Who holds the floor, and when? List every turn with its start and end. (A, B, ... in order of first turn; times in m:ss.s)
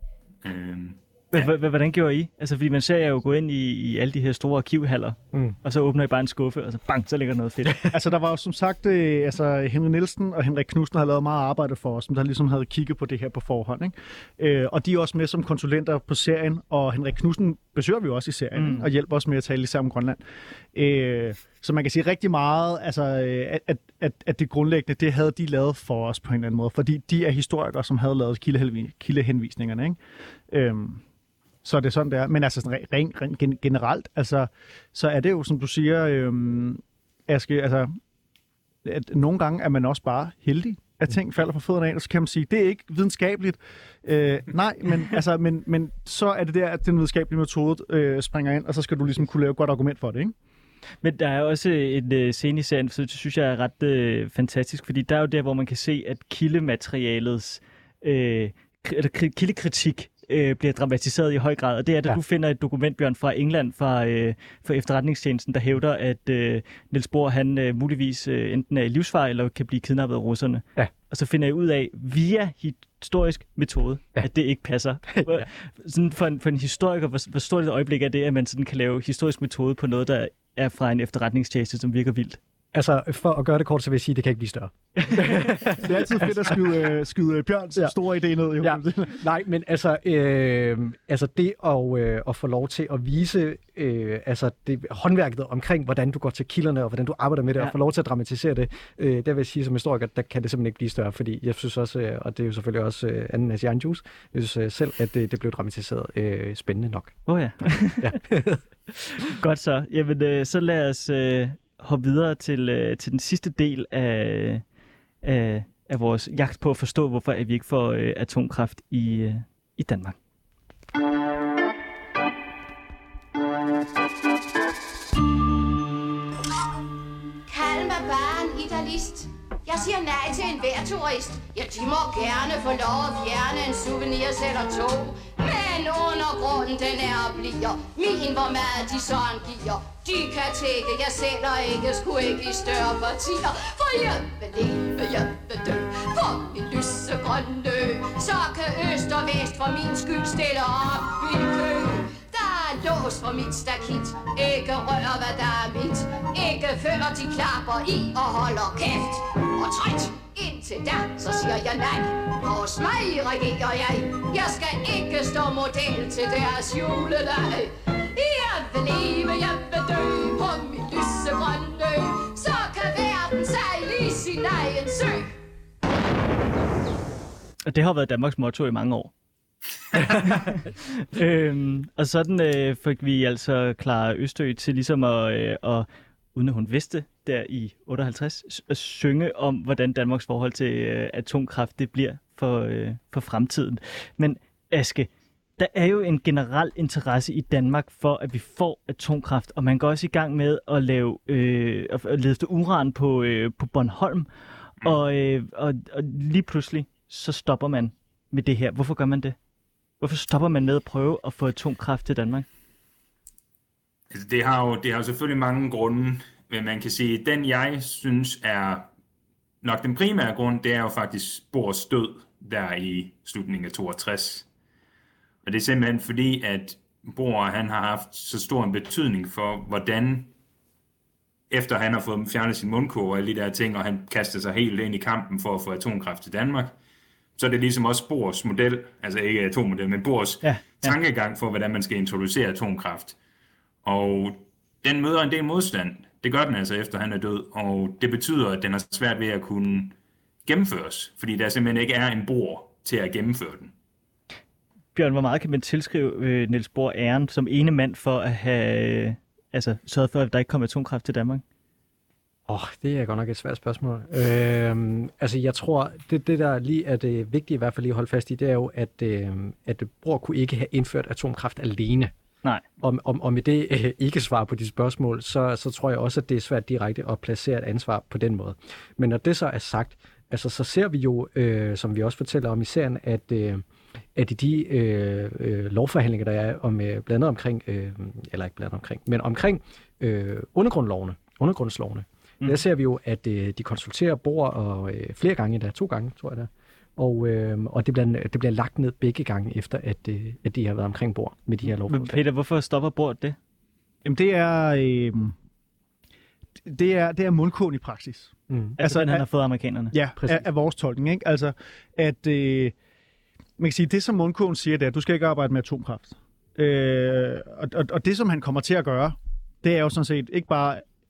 0:00.4-0:01.5 A
0:01.3-0:07.9 B
0:07.9-0:20.2 C
0:18.6-0:18.9 B
0:20.7-0:30.0 C
0:30.5-0:31.0 C
0:31.6-0:37.9 C
0:38.8-0:50.3 C
0:51.0-1:22.4 B
1:15.1-1:15.4 D
1:22.7-1:26.8 D
1:25.0-1:25.4 B
1:25.8-1:29.2 C
1:28.6-1:47.2 D
1:47.3-1:48.2 B
1:48.0-1:48.7 D
1:49.4-1:54.6 B
1:55.2-2:00.2 B
2:07.5-2:55.3 E
2:57.7-2:59.1 B
3:00.0-3:24.3 B
3:24.8-3:29.4 B
3:30.0-3:32.5 B
3:34.1-3:38.9 A
3:39.6-3:44.4 A
3:45.4-3:50.3 A
3:51.5-3:56.7 A
3:57.4-4:03.1 A
4:00.4-4:01.0 B
4:03.8-4:09.9 A
4:10.4-4:13.7 A
4:15.0-4:21.4 B
4:22.5-4:32.1 D
4:32.8-4:43.6 D
4:44.1-5:02.2 D
5:01.7-5:03.4 B
5:04.0-5:05.4 C
5:06.7-5:09.2 C
5:08.5-5:08.8 D
5:08.8-5:09.9 B
5:09.9-5:12.7 C
5:10.2-5:10.4 D
5:13.6-5:20.8 C